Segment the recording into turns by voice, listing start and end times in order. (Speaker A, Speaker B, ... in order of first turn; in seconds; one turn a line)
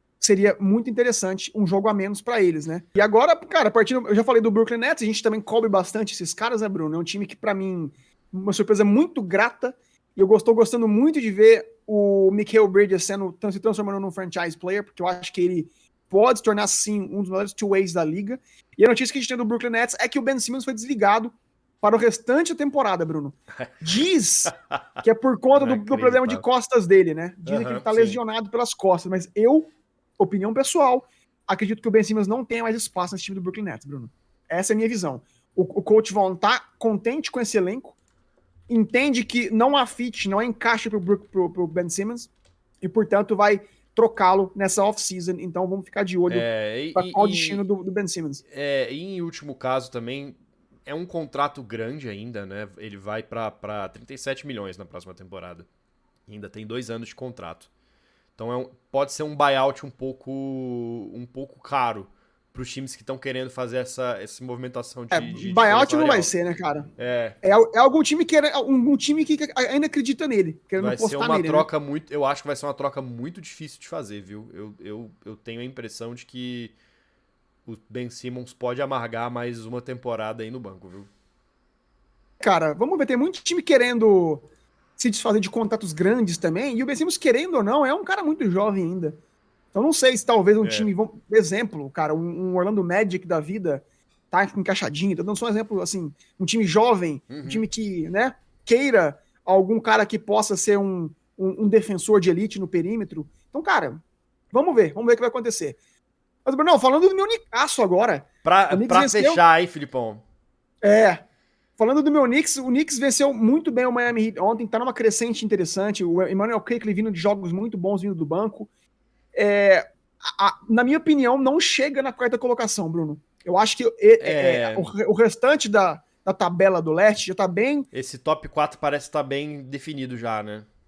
Speaker A: 0.2-37.9
Speaker B: 25.5-26.4
Speaker B: 27.4-28.2
Speaker A: 38.7-42.3
Speaker A: 42.8-48.4
Speaker B: 46.3-47.6
Speaker B: 48.5-55.7
Speaker B: 56.3-57.7
Speaker B: 58.4-66.3
Speaker A: 65.1-66.9
Speaker B: 67.0-67.4
Speaker A: 67.4-71.7
Speaker B: 70.8-76.7
Speaker B: 77.7-81.1
Speaker A: 82.4-84.5
Speaker A: 85.0-89.2
Speaker A: 89.7-105.8
Speaker B: 90.6-90.9
Speaker B: 97.3-97.6
Speaker A: 106.4-109.4
Speaker B: 108.4-110.2
Speaker A: 110.8-111.2
Speaker A: 111.8-118.7
Speaker A: 119.3-127.9
Speaker B: 124.2-124.9
Speaker B: 127.9-130.7